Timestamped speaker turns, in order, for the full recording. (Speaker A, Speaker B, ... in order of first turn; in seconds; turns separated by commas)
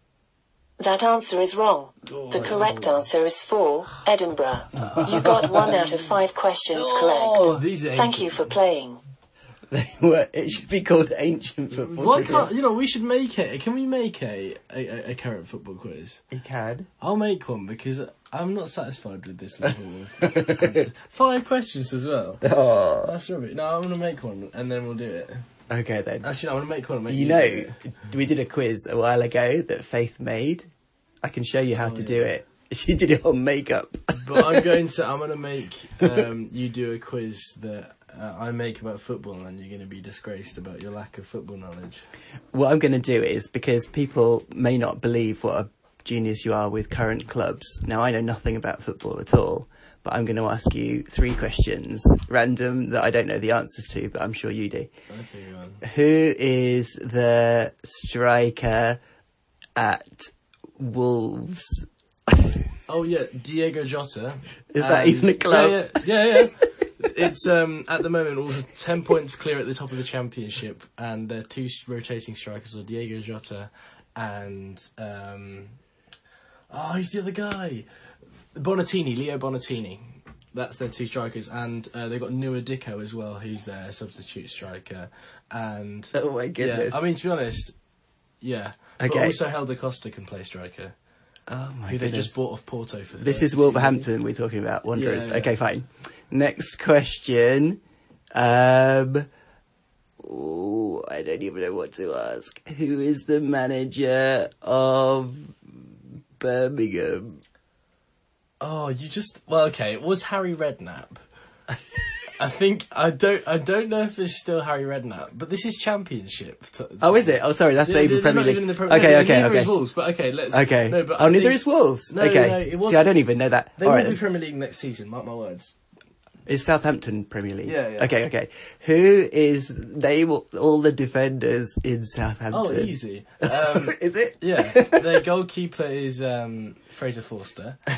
Speaker A: 0.8-9.0, Speaker B: 2.1-3.0, Speaker B: 4.8-5.8, Speaker C: 4.8-5.5, Speaker C: 6.7-7.6, Speaker B: 7.5-8.5, Speaker C: 9.7-12.5, Speaker B: 11.8-16.2, Speaker C: 16.3-16.9, Speaker B: 17.0-22.4, Speaker C: 20.2-20.8, Speaker C: 22.4-23.1, Speaker B: 23.0-25.4, Speaker C: 25.7-26.3, Speaker B: 26.2-27.7, Speaker C: 27.1-30.7, Speaker C: 31.2-34.6, Speaker B: 31.8-32.3, Speaker B: 34.2-42.0, Speaker C: 42.5-54.9, Speaker B: 55.1-55.8, Speaker C: 55.8-59.0, Speaker C: 59.8-62.6, Speaker B: 62.9-75.8, Speaker C: 64.7-66.0, Speaker B: 76.7-77.9, Speaker B: 78.5-87.7, Speaker C: 86.1-87.0, Speaker B: 88.4-90.9, Speaker C: 89.0-89.4, Speaker C: 91.5-92.4, Speaker B: 91.9-94.1, Speaker C: 93.2-97.8, Speaker B: 94.9-95.5, Speaker C: 98.3-99.3, Speaker C: 100.2-105.8, Speaker C: 106.4-107.4, Speaker B: 108.6-111.2, Speaker B: 112.3-123.1, Speaker C: 117.0-119.7, Speaker C: 120.5-124.2, Speaker B: 123.8-125.8, Speaker C: 126.5-135.2, Speaker B: 127.6-128.1, Speaker B: 132.5-137.8